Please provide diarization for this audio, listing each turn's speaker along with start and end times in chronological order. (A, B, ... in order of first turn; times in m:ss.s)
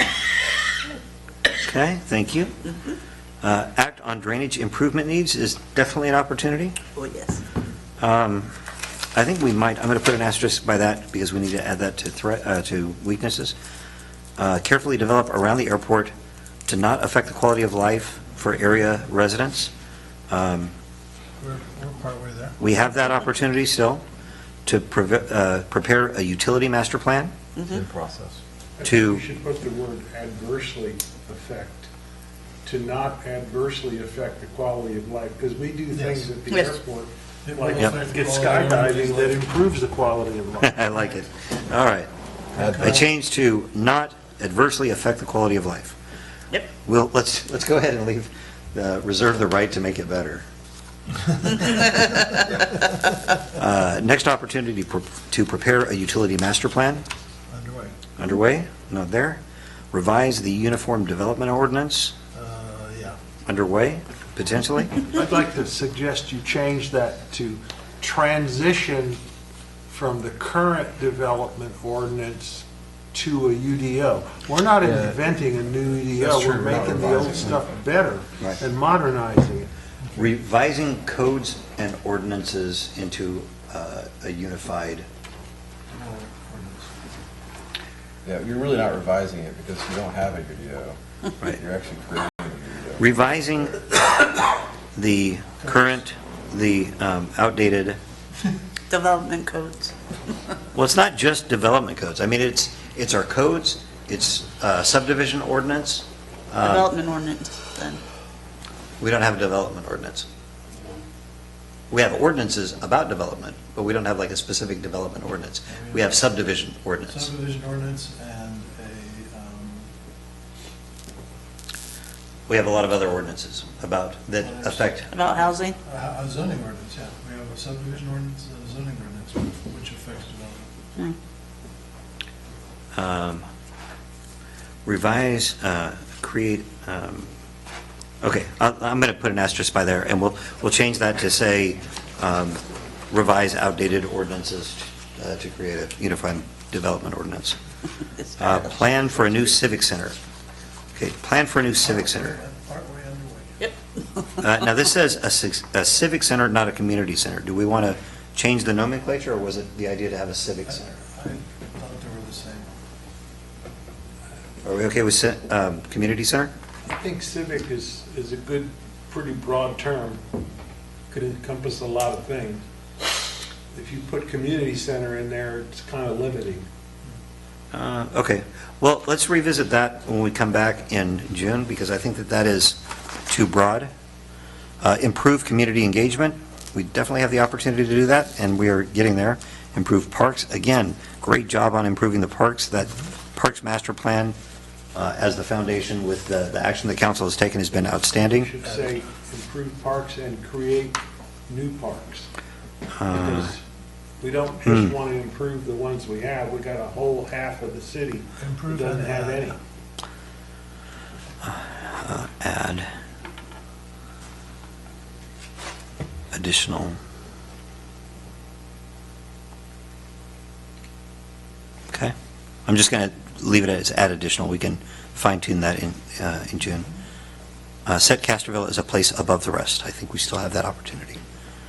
0:01.6-0:02.5 A
0:03.4-0:06.8 A
0:07.0-0:07.4 B
0:08.0-0:08.5 A
0:09.1-0:13.6 A
0:14.4-0:16.1 A
0:16.7-0:19.7 A
0:20.3-0:20.7 A
0:21.4-0:22.6 C
0:22.6-0:24.0 A
0:24.6-0:27.3 A
0:27.6-0:27.8 B
0:27.7-0:28.4 D
0:28.8-0:31.9 E
0:28.8-0:29.2 A
0:32.6-0:40.7 E
0:35.9-0:36.3 C
0:36.5-0:36.8 B
0:37.4-0:39.4 C
0:40.6-0:46.0 A
0:42.5-0:43.0 C
0:46.8-0:50.4 A
0:53.5-0:57.0 A
0:57.5-0:58.0 C
0:58.2-0:59.4 A
0:59.9-1:02.1 A
1:02.3-1:03.2 C
1:03.4-1:05.0 A
1:05.1-1:09.2 E
1:09.9-1:19.7 E
1:14.8-1:15.2 D
1:16.1-1:17.7 D
1:20.1-1:25.0 A
1:25.9-1:26.9 C
1:28.2-1:33.1 D
1:33.0-1:33.9 A
1:34.9-1:38.0 A
1:38.9-1:39.9 B
1:40.7-1:46.9 A
1:46.6-1:48.0 B
1:49.0-1:50.3 A
1:51.9-1:57.3 A
1:55.7-1:56.1 C
1:57.1-1:59.9 C
2:02.5-2:05.1 A
2:04.4-2:05.1 C
2:05.1-2:05.8 B
2:05.8-2:10.7 C
2:12.9-2:13.5 A
2:14.8-2:17.3 A
2:18.2-2:27.6 A
2:28.2-2:28.7 B
2:28.4-2:30.2 A
2:30.9-2:32.4 A
2:31.8-2:33.7 C
2:34.4-2:40.9 A
2:40.6-2:42.7 C
2:44.6-2:46.5 A
2:46.9-2:50.2 E
2:51.1-2:52.6 E
2:53.7-2:56.7 E
2:57.7-3:03.9 A
3:04.8-3:14.3 A
3:14.9-3:18.5 A
3:18.3-3:22.3 E
3:23.0-3:23.5 A
3:23.1-3:23.6 E
3:24.2-3:29.6 E
3:24.7-3:24.9 A
3:28.4-3:29.6 C
3:31.4-3:32.9 A
3:36.3-3:37.0 A
3:42.6-3:46.9 A
3:47.8-3:51.2 A